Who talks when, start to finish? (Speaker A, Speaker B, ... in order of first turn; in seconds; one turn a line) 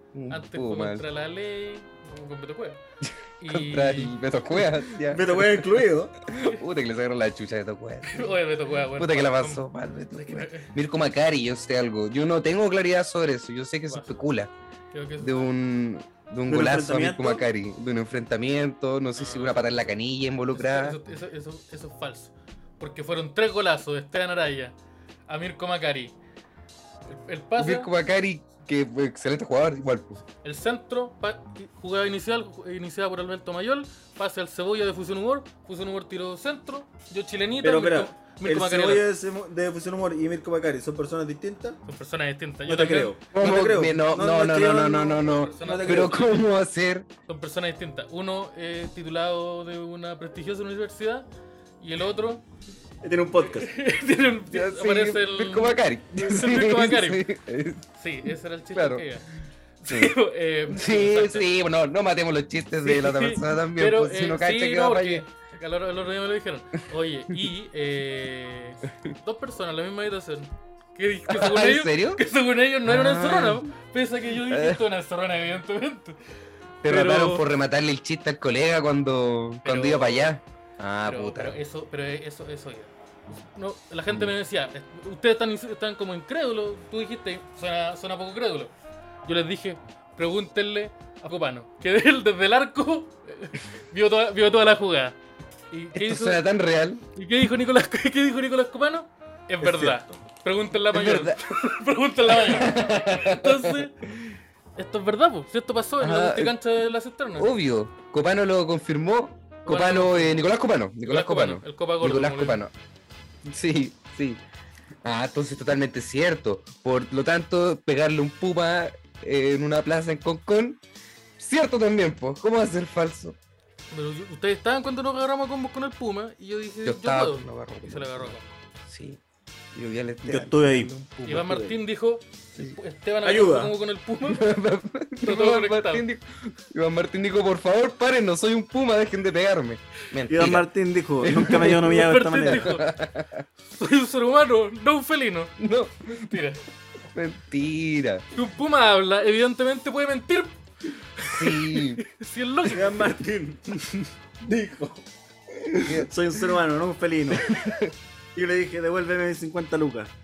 Speaker A: 0.1-1.1
Speaker B: 0.3-2.8
Speaker A: 3.0-8.4
Speaker B: 3.4-4.2
Speaker C: 5.1-6.2
Speaker B: 6.3-6.6
Speaker B: 8.1-10.7
Speaker A: 9.0-14.5
Speaker B: 13.9-14.2
Speaker B: 14.9-15.5
Speaker A: 15.2-21.0
Speaker C: 16.5-17.4
Speaker B: 19.1-19.9
Speaker B: 20.5-24.8
Speaker B: 25.3-26.1
Speaker B: 27.1-27.9
Speaker A: 27.6-30.2
Speaker B: 30.4-39.1
Speaker C: 37.6-41.8
Speaker B: 41.9-43.2
Speaker C: 42.7-46.2
Speaker A: 43.3-47.1
Speaker B: 45.2-46.5
Speaker B: 47.3-51.3
Speaker B: 51.8-52.5
Speaker C: 53.0-53.7
Speaker B: 53.4-57.3
Speaker A: 54.5-57.9
Speaker B: 58.0-59.3
Speaker A: 58.7-59.1
Speaker B: 59.8-61.5
Speaker A: 59.9-60.1
Speaker A: 60.7-65.3
Speaker B: 62.8-76.2
Speaker A: 71.3-72.2
Speaker A: 72.9-73.7
Speaker A: 74.5-74.8
Speaker A: 76.8-81.6
Speaker B: 76.8-77.5
Speaker B: 79.6-80.3
Speaker B: 81.0-88.7
Speaker B: 89.2-95.2
Speaker B: 95.7-96.5
Speaker A: 95.9-97.0
Speaker B: 97.1-104.0
Speaker C: 99.6-100.2
Speaker A: 100.9-101.5
Speaker A: 102.3-104.4
Speaker B: 104.8-107.5
Speaker A: 106.0-106.5
Speaker A: 107.4-112.7
Speaker B: 109.7-110.4
Speaker B: 111.0-112.6
Speaker A: 113.4-114.4
Speaker A: 115.0-120.8
Speaker A: 121.4-123.4
Speaker B: 123.9-128.6
Speaker A: 126.8-129.2
Speaker A: 129.7-131.7
Speaker C: 130.3-130.9
Speaker B: 131.2-134.4
Speaker C: 133.2-133.8
Speaker A: 134.3-140.7
Speaker B: 135.2-136.1
Speaker C: 140.3-142.6
Speaker A: 141.2-143.5
Speaker B: 141.8-142.9
Speaker B: 143.6-145.5
Speaker A: 145.6-146.4
Speaker B: 146.1-146.6
Speaker A: 147.1-148.2
Speaker B: 148.3-150.6
Speaker B: 151.2-153.2
Speaker A: 151.3-152.0
Speaker C: 152.7-157.5
Speaker A: 155.8-156.1
Speaker A: 157.3-157.9
Speaker C: 158.3-160.1